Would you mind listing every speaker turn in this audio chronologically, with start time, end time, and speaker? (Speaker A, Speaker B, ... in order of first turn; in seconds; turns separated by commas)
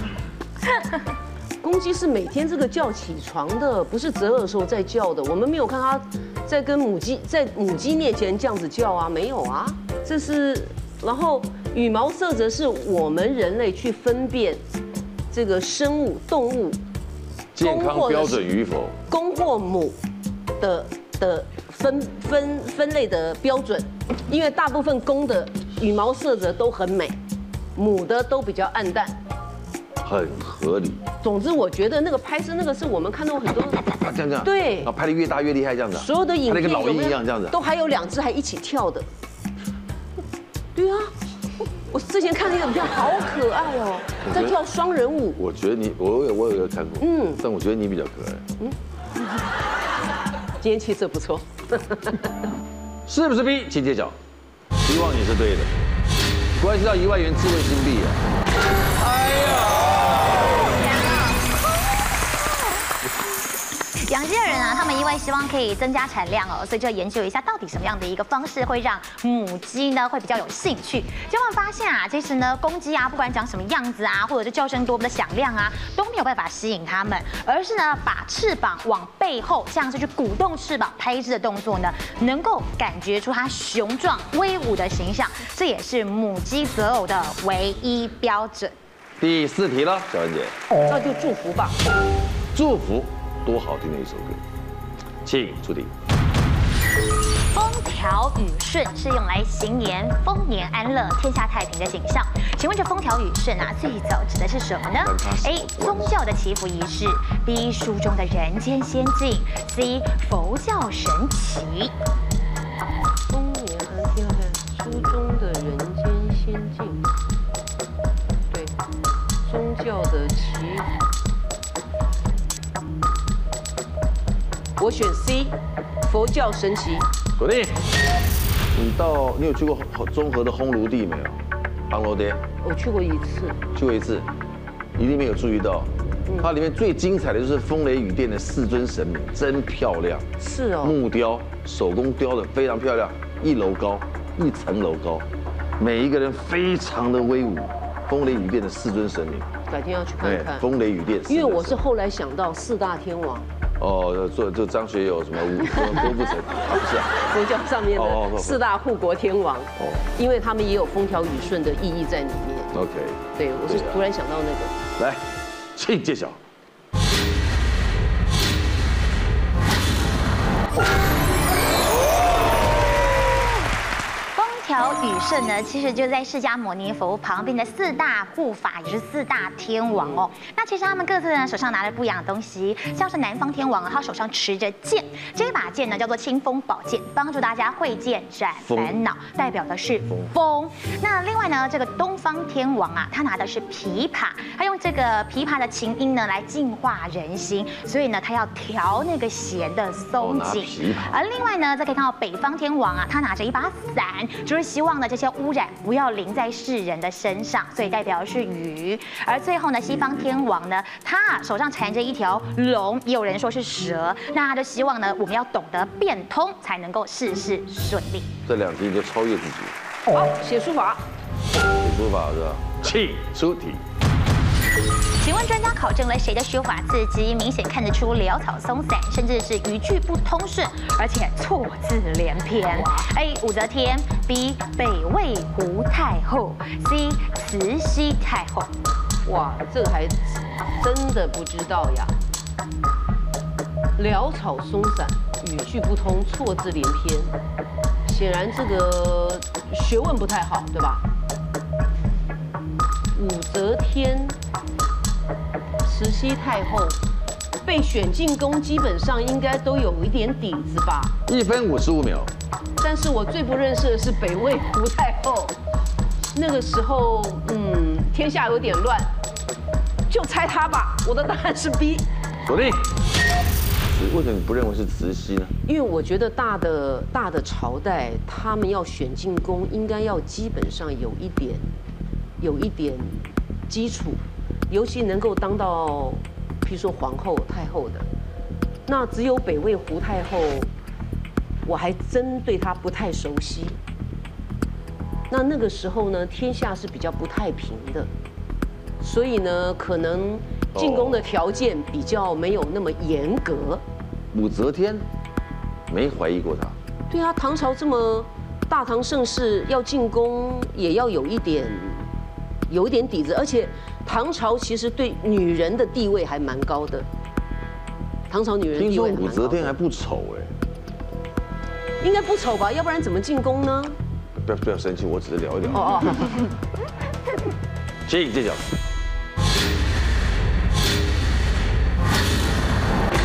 Speaker A: 1.6-14.6, Speaker A: 15.3-16.8, Speaker B: 17.5-18.9, Speaker A: 17.6-18.4, Speaker A: 19.1-20.0, Speaker A: 20.6-27.1, Speaker A: 27.7-29.2, Speaker B: 30.0-31.0, Speaker A: 31.2-33.9, Speaker B: 33.9-37.6, Speaker A: 34.4-34.9, Speaker A: 35.9-39.1, Speaker A: 40.7-41.1, Speaker A: 41.9-45.4, Speaker B: 44.2-44.6, Speaker B: 45.4-48.5, Speaker A: 47.0-47.4, Speaker A: 50.6-52.3, Speaker B: 53.1-54.1, Speaker B: 54.8-55.7, Speaker B: 56.6-58.2, Speaker B: 59.0-60.6, Speaker C: 64.0-88.7, Speaker B: 89.2-90.5, Speaker A: 90.9-91.8, Speaker B: 92.5-94.4, Speaker B: 95.2-95.9, Speaker C: 97.5-111.9, Speaker B: 105.0-106.2, Speaker A: 113.3-117.0, Speaker A: 119.5-121.0, Speaker A: 124.8-127.1, Speaker B: 127.4-127.8, Speaker B: 128.7-131.4, Speaker B: 131.9-132.4, Speaker A: 132.6-133.6, Speaker B: 133.7-134.3, Speaker B: 134.9-140.3, Speaker A: 140.4-140.9, Speaker B: 140.8-145.3, Speaker B: 145.8-149.5, Speaker A: 149.7-150.6, Speaker B: 150.2-151.8, Speaker A: 151.3-153.5, Speaker B: 153.8-157.2, Speaker A: 157.3-162.7, Speaker B: 157.9-158.6, Speaker B: 159.8-160.1, Speaker B: 162.7-164.0, Speaker A: 163.3-164.8, Speaker B: 165.0-166.4, Speaker C: 174.3-218.3, Speaker B: 188.6-189.0, Speaker B: 190.1-190.3, Speaker B: 200.2-201.2, Speaker B: 209.9-210.2, Speaker B: 218.4-219.7, Speaker A: 220.1-221.0, Speaker B: 221.7-223.8, Speaker C: 225.2-238.7, Speaker A: 232.7-233.1, Speaker A: 239.2-242.1, Speaker A: 244.0-247.3, Speaker A: 248.0-251.0, Speaker A: 253.1-254.3, Speaker A: 255.8-257.0, Speaker A: 257.6-261.1, Speaker B: 261.3-262.3, Speaker A: 262.8-265.5, Speaker A: 266.3-269.1, Speaker A: 270.1-272.1, Speaker B: 272.4-272.9, Speaker B: 273.8-275.5, Speaker A: 275.6-281.7, Speaker A: 282.4-288.1, Speaker A: 288.9-290.7, Speaker A: 291.6-293.8, Speaker A: 295.3-298.1, Speaker A: 299.0-303.8, Speaker B: 300.7-301.2, Speaker B: 304.3-305.0, Speaker B: 305.9-306.8, Speaker A: 307.1-312.1, Speaker A: 312.7-317.1, Speaker A: 318.3-319.7, Speaker B: 318.7-320.5, Speaker A: 322.0-323.9, Speaker B: 324.4-326.2, Speaker A: 325.7-326.4, Speaker B: 328.1-328.7